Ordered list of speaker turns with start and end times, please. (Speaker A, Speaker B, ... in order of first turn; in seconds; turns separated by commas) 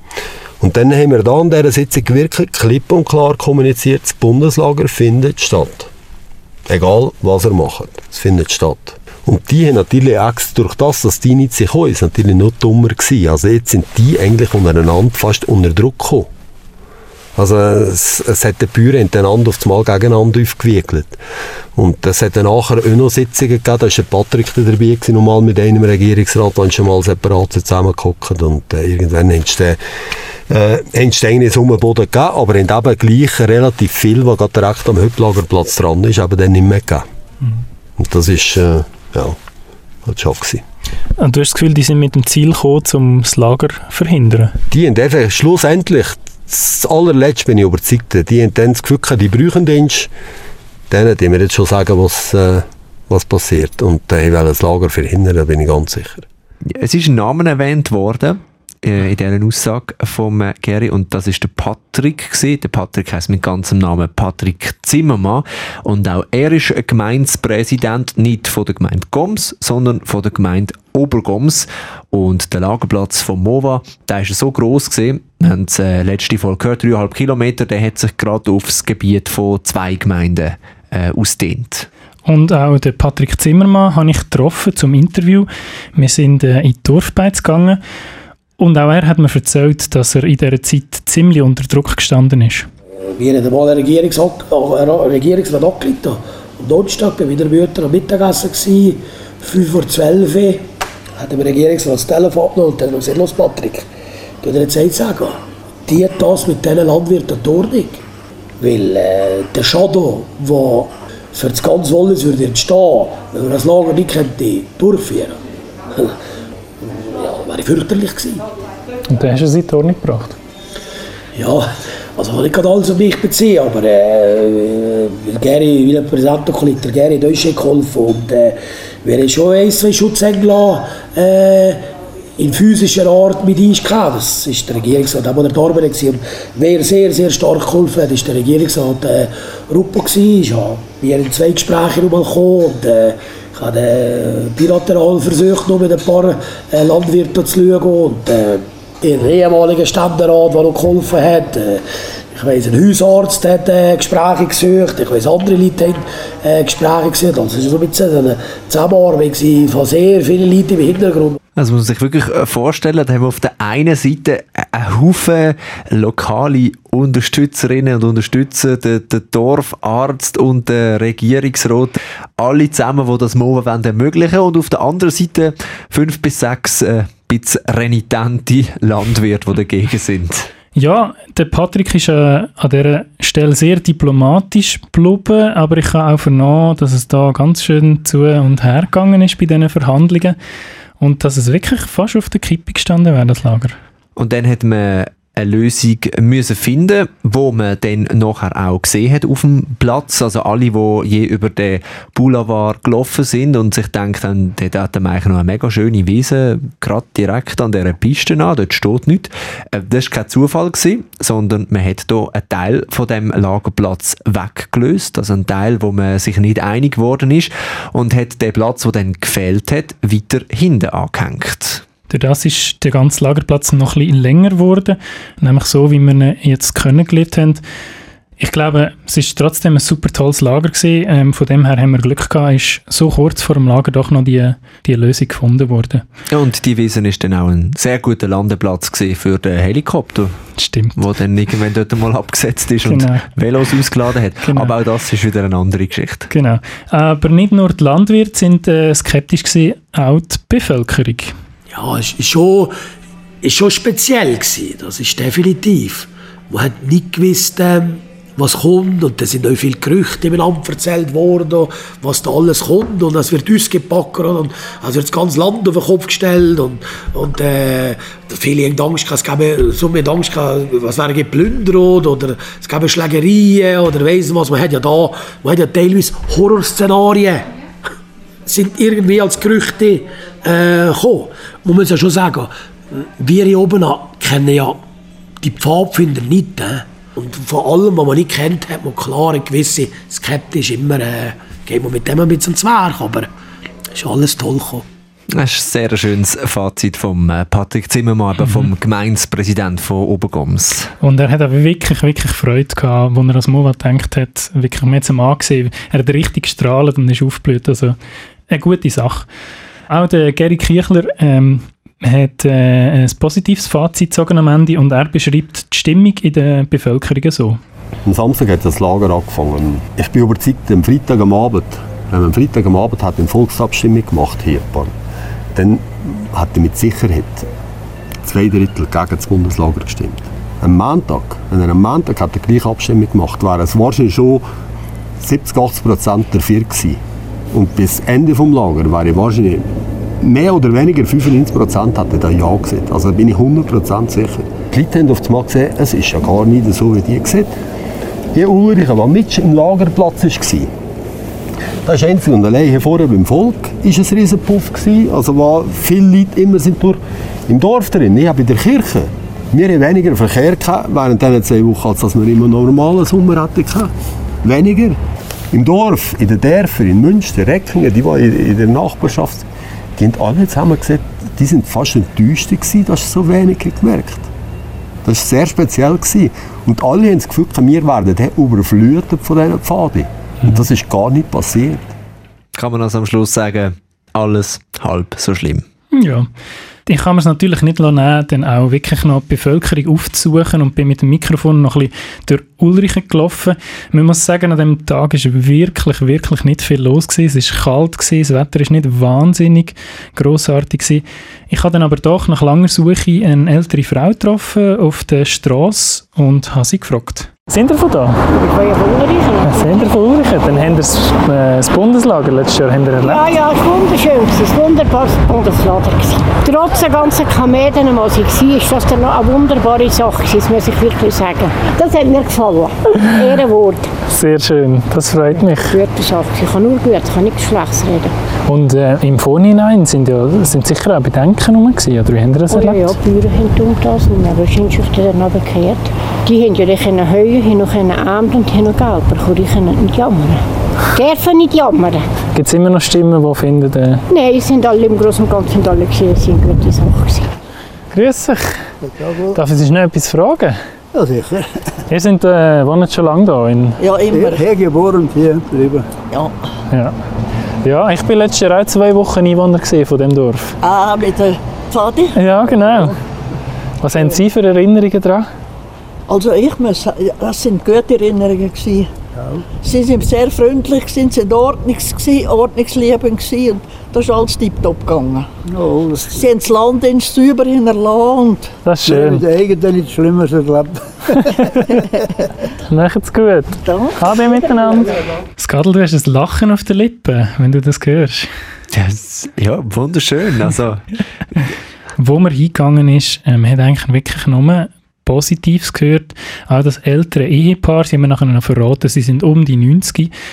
Speaker A: 0.6-5.9, Speaker A: 6.7-16.3, Speaker A: 17.4-21.2, Speaker A: 21.8-29.8, Speaker A: 30.5-37.1, Speaker A: 38.0-39.4, Speaker A: 40.0-40.6, Speaker B: 41.2-44.6, Speaker A: 44.7-50.1, Speaker A: 50.9-56.3, Speaker C: 56.7-81.9, Speaker B: 82.3-87.8, Speaker B: 88.6-92.7, Speaker D: 93.0-100.7, Speaker D: 101.2-103.9, Speaker D: 104.4-108.0, Speaker D: 108.6-115.4, Speaker D: 115.9-116.2, Speaker D: 116.8-118.5, Speaker B: 119.1-120.4, Speaker D: 121.3-151.8, Speaker D: 152.3-161.4, Speaker C: 161.6-180.5, Speaker B: 180.8-190.4, Speaker B: 191.0-193.8, Speaker C: 194.2-221.8, Speaker B: 222.1-227.6, Speaker B: 228.4-236.0, Speaker C: 236.3-240.4, Speaker B: 240.6-241.0, Speaker C: 240.9-246.3, Speaker B: 242.8-243.3, Speaker B: 244.4-244.7, Speaker B: 246.3-251.3, Speaker D: 251.7-252.8, Speaker D: 253.4-277.5, Speaker D: 278.4-284.8, Speaker D: 285.4-293.3, Speaker D: 293.9-294.9, Speaker C: 295.3-300.9, Speaker B: 301.0-308.0, Speaker B: 308.5-309.3, Speaker B: 309.9-317.6, Speaker A: 318.1-324.9, Speaker A: 325.5-327.5, Speaker A: 328.2-334.5, Speaker A: 335.2-337.0, Speaker A: 337.5-347.5, Speaker A: 348.3-350.7, Speaker A: 351.8-363.9, Speaker A: 364.4-365.0, Speaker A: 365.5-374.3, Speaker A: 375.1-381.9, Speaker C: 382.6-385.6, Speaker B: 385.9-386.3, Speaker B: 386.9-408.2, Speaker E: 408.3-409.9, Speaker B: 409.5-413.2, Speaker E: 413.0-423.9, Speaker B: 424.1-425.8, Speaker E: 425.5-428.1, Speaker B: 428.5-432.9, Speaker E: 432.5-442.0, Speaker B: 442.4-444.0, Speaker E: 444.1-447.3, Speaker B: 447.9-448.7, Speaker F: 448.9-449.4, Speaker B: 449.3-450.6, Speaker F: 450.9-451.6, Speaker B: 451.9-453.8, Speaker G: 453.8-454.4, Speaker F: 454.1-455.9, Speaker B: 456.7-457.0, Speaker B: 457.6-460.6, Speaker G: 460.6-462.2, Speaker B: 462.1-463.0, Speaker B: 463.8-465.3, Speaker G: 466.1-468.9, Speaker G: 469.6-475.3, Speaker F: 475.5-476.3, Speaker G: 476.1-478.5, Speaker B: 478.6-479.2, Speaker F: 478.9-481.2, Speaker B: 481.2-481.7, Speaker B: 482.7-488.3, Speaker G: 483.6-485.0, Speaker C: 488.7-491.0, Speaker B: 492.0-500.1